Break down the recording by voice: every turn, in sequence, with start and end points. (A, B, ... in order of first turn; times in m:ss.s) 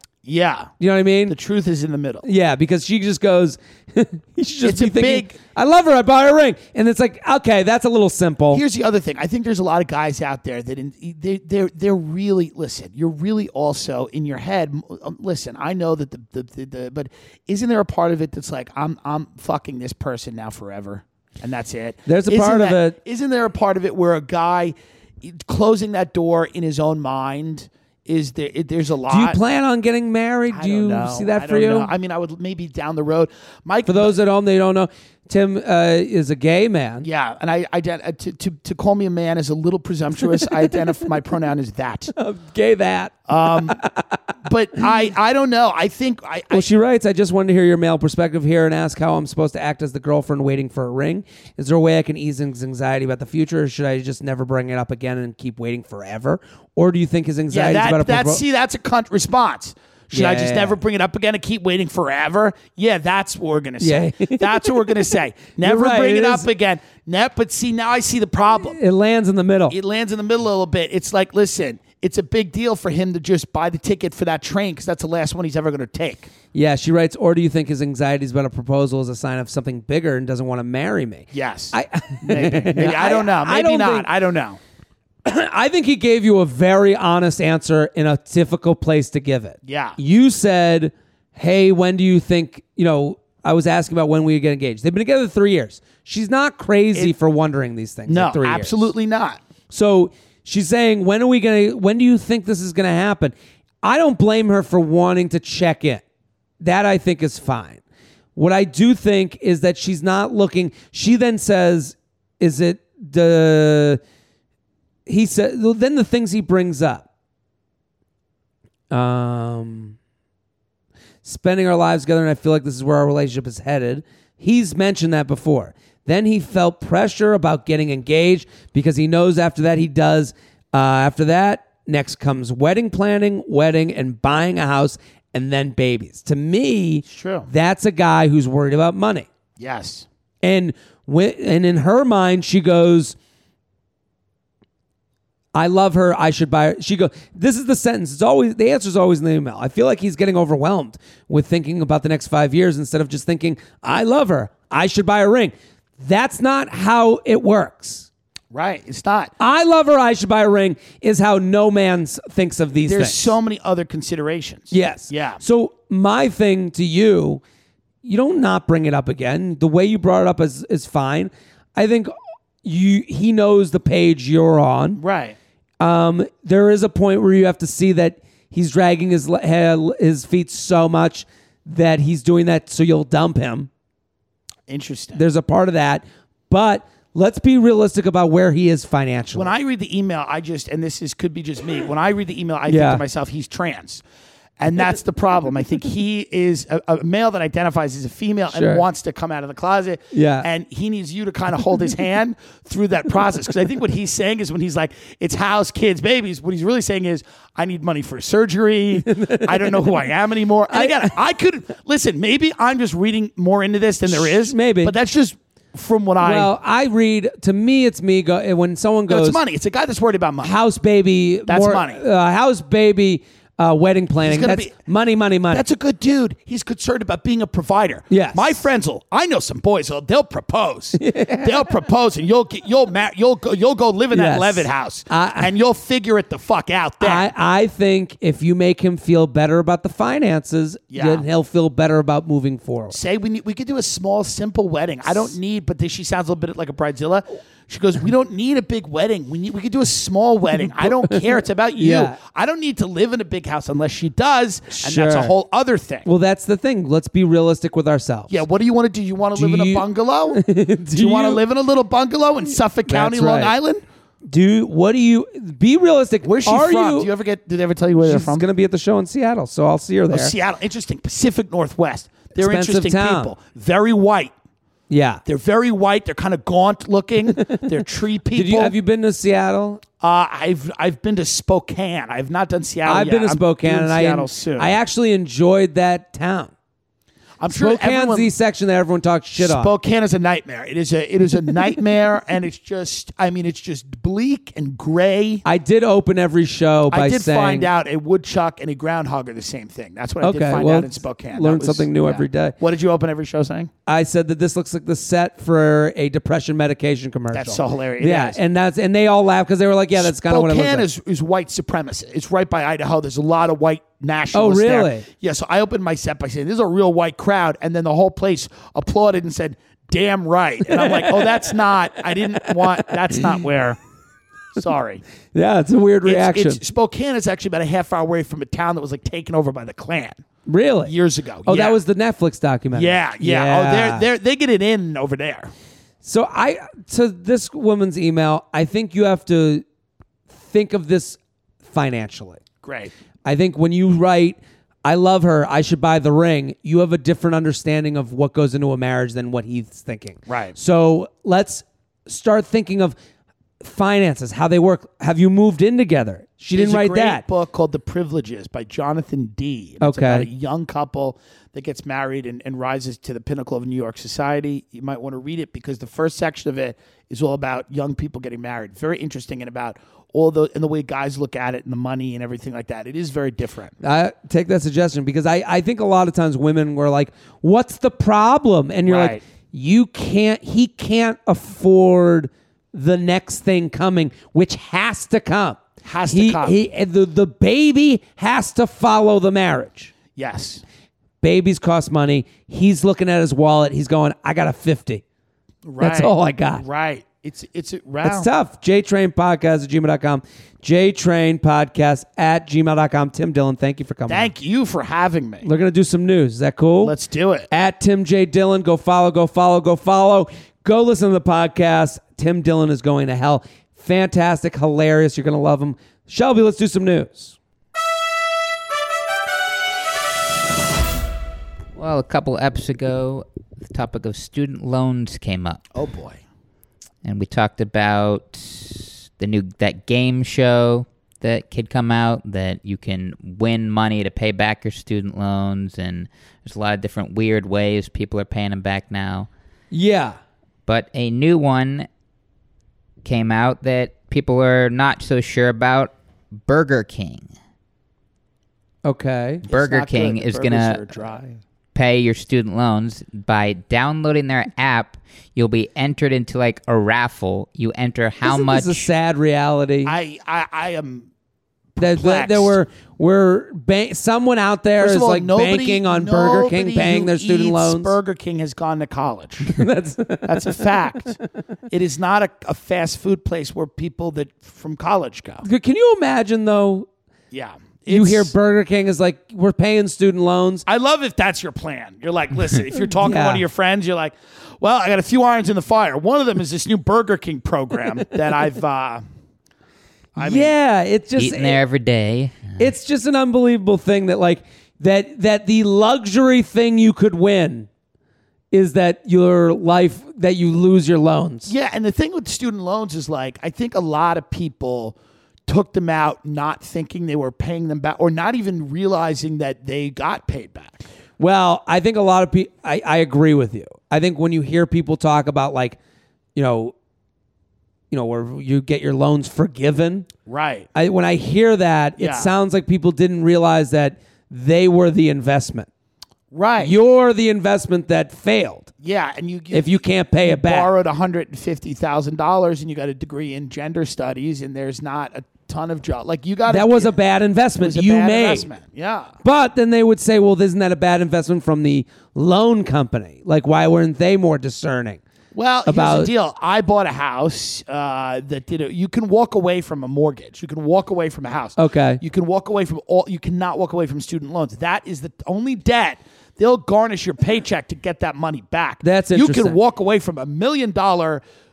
0:00.2-0:00.7 A
0:00.8-0:01.3 B
0:01.2-0:02.2 A
0:02.2-0:08.6 B
0:04.6-0:05.4 A
0:08.5-0:29.4 A
0:22.0-0:23.0 B
0:29.1-0:31.9 B
0:30.5-0:34.1 A
0:33.8-0:37.1 B
0:37.0-0:42.1 A
0:40.4-0:40.8 B
0:42.1-0:44.2 B
0:43.3-0:43.8 A
0:44.4-0:46.7 A
0:46.5-0:58.4 B
0:57.5-1:08.8 A
1:00.1-1:00.8 B
1:03.8-1:05.1 B
1:05.6-1:06.5 B
1:08.6-1:09.8 B
1:09.7-1:16.3 A
1:16.5-1:24.1 B
1:21.3-1:24.6 A
1:25.2-1:38.9 B
1:29.6-1:30.0 A
1:38.1-1:39.4 A
1:39.7-1:46.0 B
1:46.6-1:47.8 B
1:48.3-1:54.0 B
1:55.0-1:57.0 B
1:58.9-2:00.0 B
2:01.2-2:19.3 B
2:17.1-2:17.5 A
2:19.6-2:20.0 A
2:20.4-2:23.2 B
2:25.5-2:38.1 B
2:38.5-2:39.3 A
2:39.4-2:43.3 B
2:42.8-2:45.4 A
2:44.7-2:47.4 B
2:48.0-2:55.0 B
2:55.0-2:55.4 A
2:55.8-3:03.7 B
3:04.7-3:05.2 A
3:05.1-3:09.5 B
3:09.3-3:14.0 A
3:12.7-3:13.0 B
3:14.6-3:36.5 A
3:18.5-3:18.8 B
3:20.1-3:20.5 B
3:29.0-3:30.1 B
3:30.7-3:31.1 B
3:34.1-3:34.9 B
3:36.2-3:39.4 B
3:39.1-3:40.5 A
3:40.4-3:45.6 B
3:41.5-3:42.0 A
3:44.2-3:44.7 A
3:45.5-3:57.3 A
3:48.1-3:48.6 B
3:51.0-3:51.7 B
3:54.1-3:55.5 B
3:57.0-4:03.0 B
4:00.9-4:01.2 A
4:02.9-4:16.1 A
4:10.8-4:12.2 B
4:14.7-4:15.3 B
4:16.0-4:18.4 B
4:18.3-4:23.8 A
4:19.3-4:21.4 B
4:22.8-4:23.5 B
4:24.3-4:27.1 B
4:26.2-4:28.4 A
4:28.0-4:30.3 B
4:30.1-4:34.3 A
4:32.4-4:33.3 B
4:34.9-4:35.2 B
4:35.2-4:38.7 A
4:37.4-4:37.7 B
4:38.3-4:39.8 B
4:40.0-4:44.8 A
4:42.8-4:46.5 B
4:47.4-4:48.3 A
4:47.5-4:49.7 B
4:49.4-4:55.4 A
4:55.4-4:57.7 B
4:56.9-5:03.7 A
5:00.2-5:02.6 B
5:03.8-5:10.8 B
5:07.3-5:08.4 A
5:09.9-5:23.8 A
5:14.3-5:15.0 B
5:20.7-5:21.5 B
5:22.4-5:23.3 B
5:24.5-5:25.0 A
5:25.3-5:26.6 B
5:26.0-5:30.2 A
5:30.5-5:30.9 B
5:30.8-5:31.8 A
5:31.4-5:34.0 B
5:32.7-5:35.5 A
5:36.0-5:39.6 B
5:40.3-5:42.4 B
5:42.6-5:42.9 A
5:43.2-5:52.9 B
5:50.3-5:50.6 A
5:53.6-5:57.2 B
5:56.5-6:13.7 A
5:59.8-6:00.3 B
6:13.8-6:29.9 B
6:18.8-6:19.2 A
6:25.8-6:26.6 A
6:30.1-6:30.6 A
6:31.2-6:35.0 B
6:35.6-6:38.3 A
6:35.8-6:36.6 B
6:38.0-6:44.3 B
6:44.1-6:45.5 A
6:45.4-6:46.9 B
6:46.8-6:47.5 A
6:47.5-6:57.4 B
7:01.7-7:05.6 C
7:05.7-7:06.2 A
7:07.0-7:19.3 C
7:19.7-7:20.2 B
7:20.6-7:21.9 C
7:23.0-7:25.9 C
7:26.4-7:27.3 C
7:28.8-7:29.4 B
7:29.4-7:31.4 A
7:29.5-7:30.8 C
7:31.7-7:38.9 C
7:38.2-7:39.9 B
7:39.8-7:41.1 A
7:41.8-7:42.6 A
7:41.8-7:48.0 B
7:44.8-7:49.6 A
7:49.4-7:50.8 B
7:50.2-7:51.2 A
7:51.7-7:55.4 A
7:55.4-7:56.9 B
7:57.3-7:58.3 A
7:57.9-8:00.6 B
8:00.6-8:09.0 A
8:03.0-8:03.4 B
8:10.2-8:10.5 A
8:10.2-8:11.6 B
8:11.2-8:12.6 C
8:12.6-8:17.7 B
8:18.5-8:21.5 B
8:21.5-8:25.0 A
8:25.5-8:30.8 A
8:31.2-8:35.8 B
8:36.3-8:36.7 B
8:37.9-8:40.1 B
8:40.2-8:40.7 A
8:40.7-8:45.7 B
8:42.0-8:42.3 A
8:46.3-8:46.7 A
8:46.6-8:48.7 B
8:48.8-8:56.9 A
8:49.5-8:50.7 B
8:56.5-8:58.5 B
8:57.6-8:59.1 A
8:59.2-9:05.0 B
9:05.3-9:21.2 A
9:05.6-9:06.1 B
9:11.6-9:12.0 B
9:18.8-9:19.6 B